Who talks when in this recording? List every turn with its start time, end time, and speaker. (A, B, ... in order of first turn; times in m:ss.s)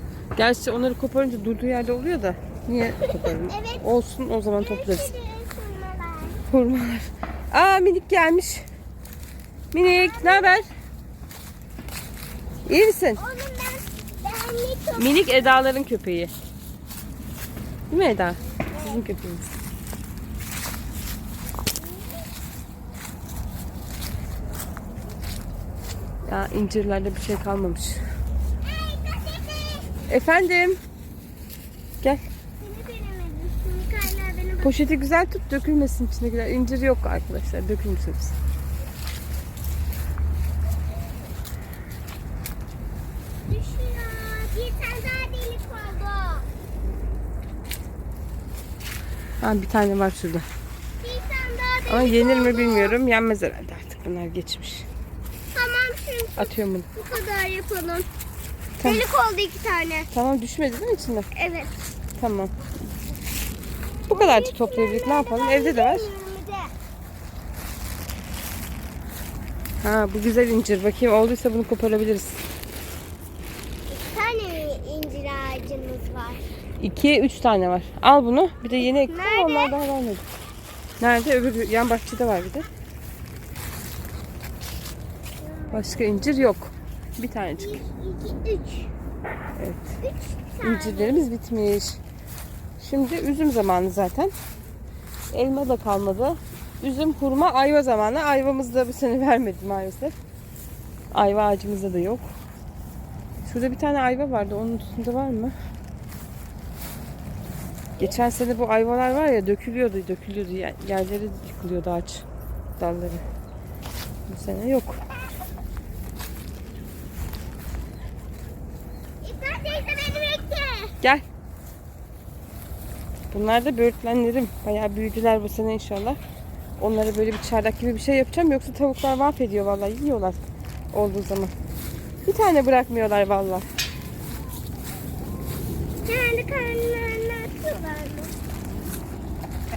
0:00.4-0:05.1 A
0:03.0-0:03.8 B
0:04.6-0:06.4 B
0:06.5-0:08.6 A
0:09.7-0:10.7 A
0:09.9-0:10.6 B
0:12.7-0:13.2 A
0:13.2-0:15.6 B
0:15.0-0:16.3 A
0:17.9-0:19.4 A
0:18.7-0:19.0 B
0:21.8-0:22.3 B
0:26.2-0:28.0 A
0:28.6-0:29.9 B
0:30.1-0:30.8 A
0:32.6-0:34.8 B
0:34.6-0:38.3 A
0:43.5-0:46.5 B
0:49.4-0:50.4 A
0:51.0-0:53.0 B
0:51.9-0:54.9 A
0:55.5-0:58.1 B
0:56.4-0:56.9 A
0:58.8-0:59.0 A
0:58.8-1:00.1 B
1:00.1-1:01.3 A
1:01.3-1:01.7 B
1:02.2-1:02.5 A
1:04.1-1:06.1 A
1:04.1-1:06.7 B
1:09.8-1:12.4 A
1:13.9-1:16.5 B
1:16.8-1:20.2 A
1:18.8-1:19.8 B
1:21.0-1:22.6 A
1:25.4-1:26.4 B
1:25.7-1:27.8 A
1:27.6-1:28.9 B
1:29.6-1:30.0 A
1:30.0-1:31.3 B
1:30.6-1:32.0 A
1:32.8-1:34.3 A
1:35.3-1:40.1 A
1:41.1-1:42.3 A
1:43.4-1:45.5 A
1:48.0-1:52.2 A
1:52.8-1:53.2 A
1:54.3-1:55.0 A
1:59.2-2:00.9 B
2:03.3-2:06.2 A
2:06.8-2:10.4 A
2:10.9-2:11.5 A
2:12.2-2:13.6 A
2:16.0-2:18.3 B